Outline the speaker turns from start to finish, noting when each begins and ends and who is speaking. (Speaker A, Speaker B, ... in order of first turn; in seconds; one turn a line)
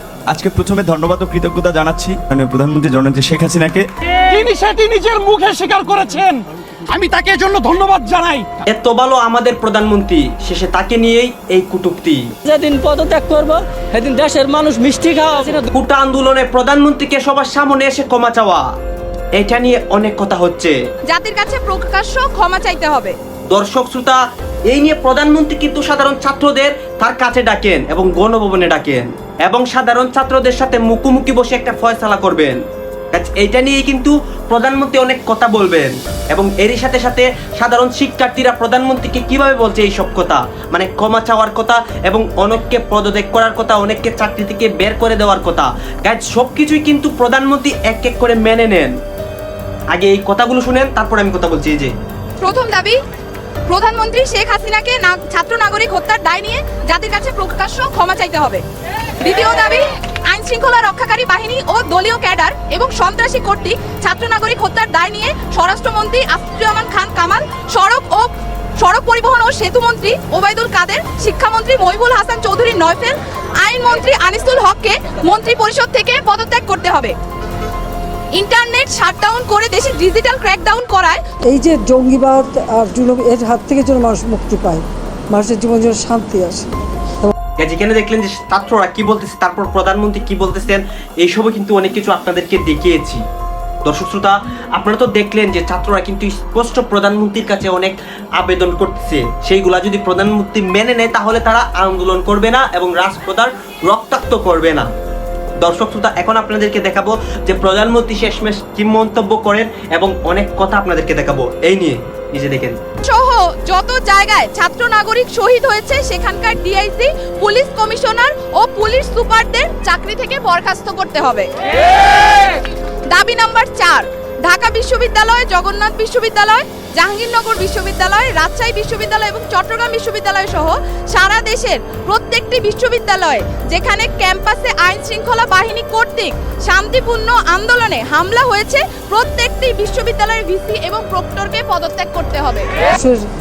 Speaker A: 0.3-3.9
Speaker B: 4.2-8.5
Speaker C: 8.7-12.2
Speaker D: 12.4-15.7
Speaker C: 15.7-18.6
Speaker C: 19.4-20.8
Speaker E: 21.1-23.1
Speaker C: 23.5-32.6
Speaker C: 33.1-48.9
Speaker C: 49.9-51.9
Speaker E: 52.4-53.0
Speaker E: 53.7-58.6
Speaker E: 59.2-77.1
Speaker E: 78.3-81.2
Speaker F: 81.4-87.3
Speaker C: 87.6-93.2
Speaker C: 93.8-104.9
Speaker C: 105.6-112.8
Speaker E: 113.0-121.5
Speaker E: 123.1-142.7
Speaker F: 142.9-143.2